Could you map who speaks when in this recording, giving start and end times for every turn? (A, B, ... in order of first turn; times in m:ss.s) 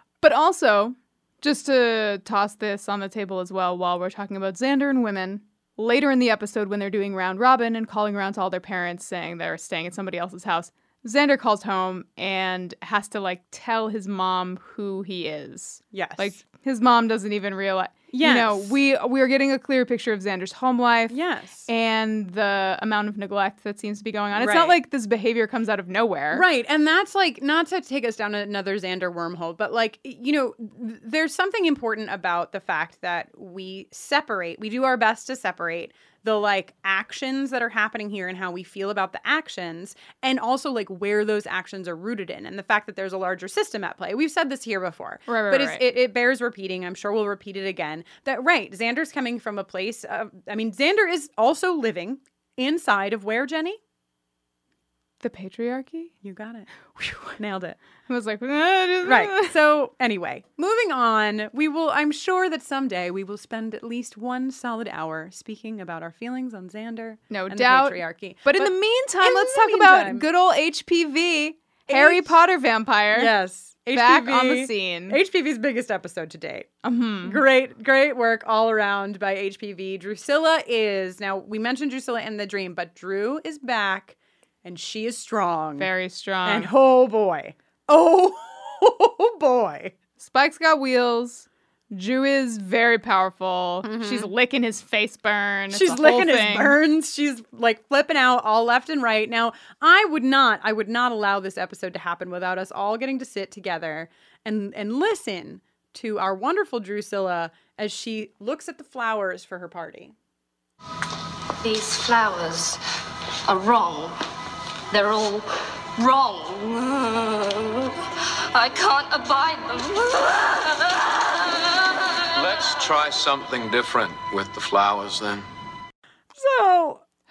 0:00.2-0:21.2 A
0:15.9-0:16.4 B
0:18.1-0:18.8 B
0:21.1-0:21.7 B
0:21.7-0:26.4 A
0:24.3-0:24.8 B
0:26.3-0:53.8 B
0:45.3-0:45.8 A
0:55.2-0:56.1 A
0:56.2-0:57.8 B
0:58.1-0:59.5 A
0:59.0-1:10.2 B
1:07.3-1:13.3 A
1:11.9-1:12.4 B
1:13.1-1:16.7 B
1:13.9-1:15.2 A
1:16.8-1:17.4 A
1:17.2-1:25.9 B
1:25.8-1:26.7 A
1:26.4-1:29.9 B
1:30.2-1:36.8 A
1:33.8-1:34.3 B
1:35.7-1:50.1 B
1:51.6-1:52.8 C
1:53.5-1:54.1 C
1:54.9-2:02.2 C
2:02.4-2:05.4 D
2:06.3-2:07.0 B